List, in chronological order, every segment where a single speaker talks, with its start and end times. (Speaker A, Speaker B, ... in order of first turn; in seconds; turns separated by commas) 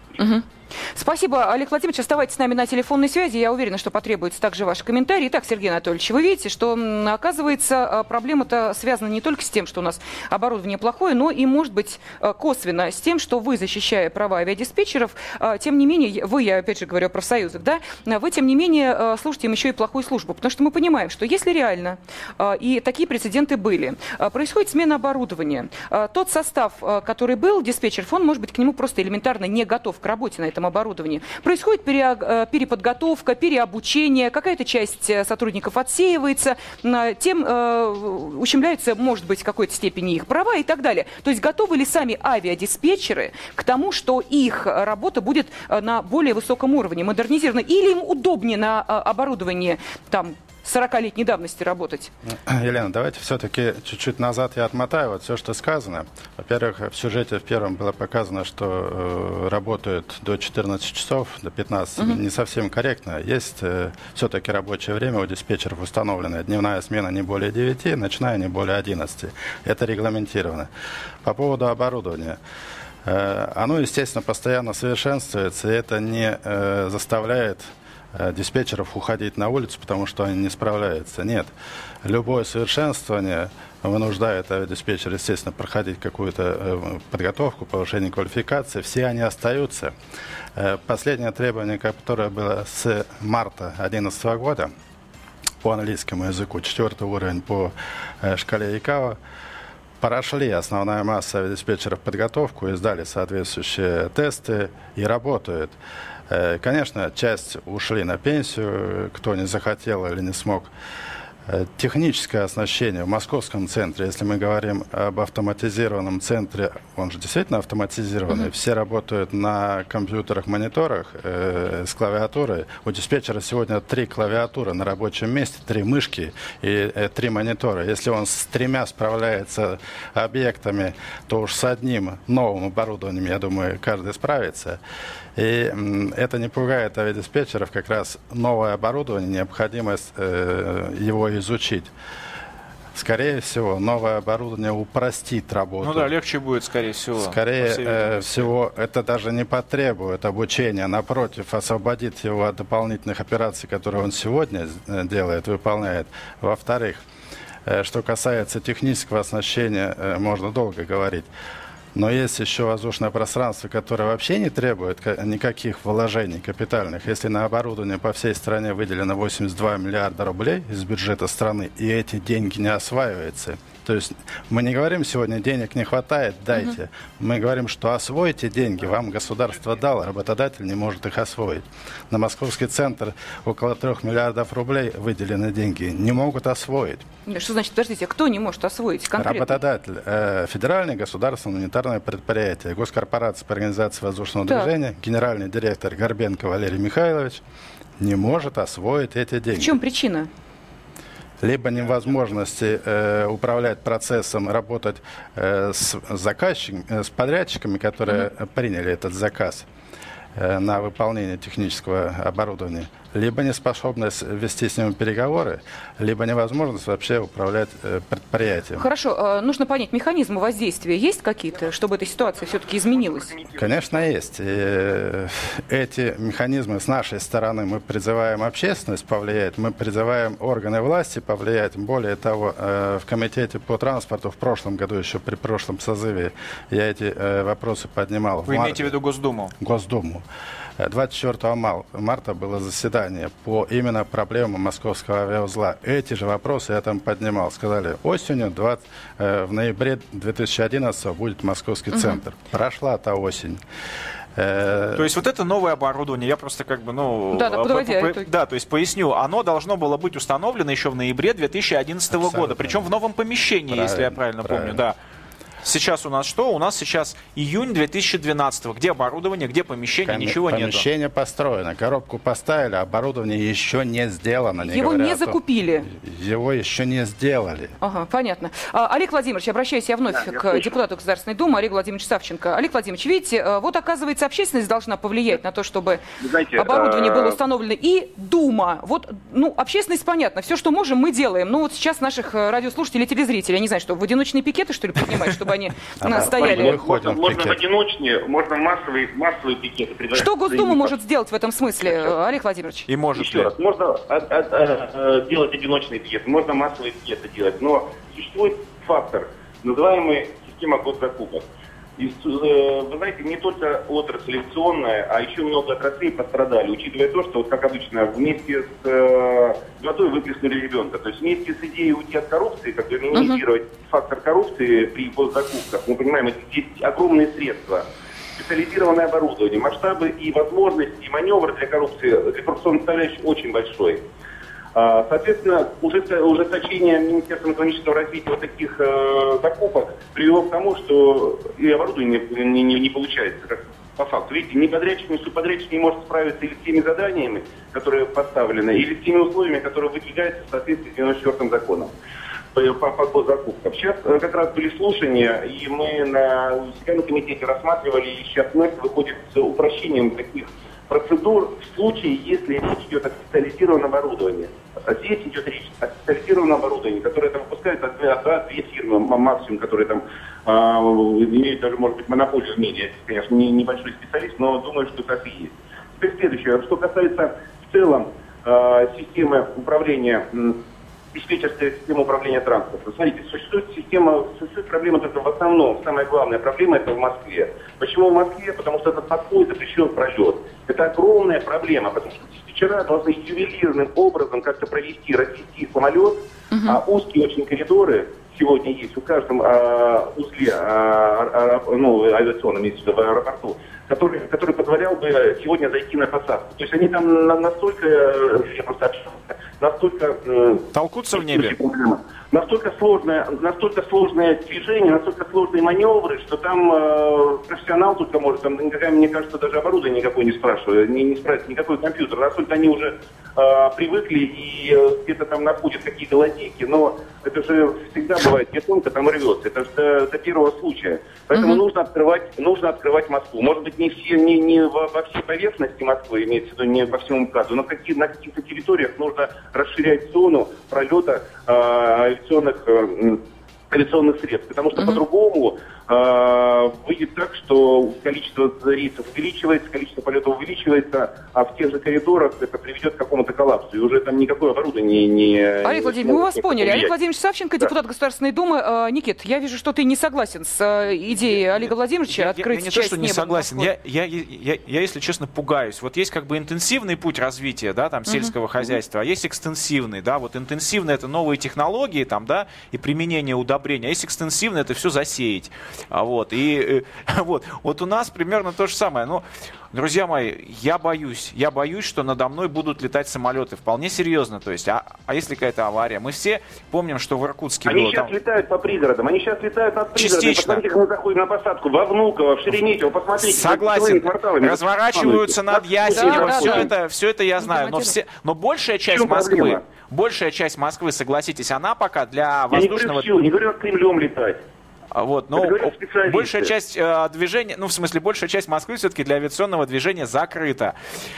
Speaker A: 0.2-52.1, Speaker B: 52.3-70.7, Speaker B: 71.2-72.4, Speaker B: 73.0-81.5, Speaker B: 82.0-89.9, Speaker B: 90.5-94.7, Speaker B: 95.6-99.2, Speaker B: 100.0-105.8, Speaker B: 106.3-110.7, Speaker B: 111.5-134.8, Speaker B: 135.3-141.9, Speaker B: 142.9-146.1, Speaker C: 145.8-148.5, Speaker B: 147.2-157.0, Speaker B: 157.7-161.3, Speaker B: 161.9-187.0, Speaker A: 187.2-189.6, Speaker B: 189.2-197.4, Speaker B: 198.0-199.8, Speaker A: 199.6-200.3, Speaker B: 201.4-209.7, Speaker B: 210.3-218.9, Speaker A: 218.8-223.3, Speaker D: 222.9-224.1, Speaker B: 223.6-238.9, Speaker C: 238.5-239.5, Speaker B: 239.6-240.2, Speaker B: 240.8-253.6, Speaker B: 254.3-255.1, Speaker C: 254.9-264.9, Speaker A: 257.3-258.3, Speaker B: 262.1-262.9, Speaker B: 263.7-264.8, Speaker C: 265.6-270.9, Speaker B: 270.1-277.7, Speaker A: 274.6-275.9, Speaker A: 277.8-286.0, Speaker D: 280.1-280.7, Speaker D: 286.2-287.4, Speaker A: 286.5-296.8, Speaker B: 296.0-297.6, Speaker D: 296.1-300.9, Speaker A: 300.1-302.9, Speaker C: 302.9-303.5, Speaker D: 303.1-311.4, Speaker D: 312.0-334.0, Speaker A: 323.1-323.4, Speaker D: 334.7-351.9, Speaker D: 352.5-380.6, Speaker D: 381.1-443.2, Speaker A: 396.5-396.8, Speaker C: 410.7-411.5, Speaker D: 443.7-456.9, Speaker A: 455.6-463.7, Speaker C: 462.1-488.1, Speaker A: 468.1-468.3, Speaker D: 487.6-496.7, Speaker C: 489.9-490.6, Speaker C: 493.2-503.1, Speaker A: 495.9-496.7, Speaker A: 497.4-498.0, Speaker D: 498.9-499.6, Speaker D: 502.5-504.4, Speaker C: 504.9-510.7, Speaker D: 505.3-506.5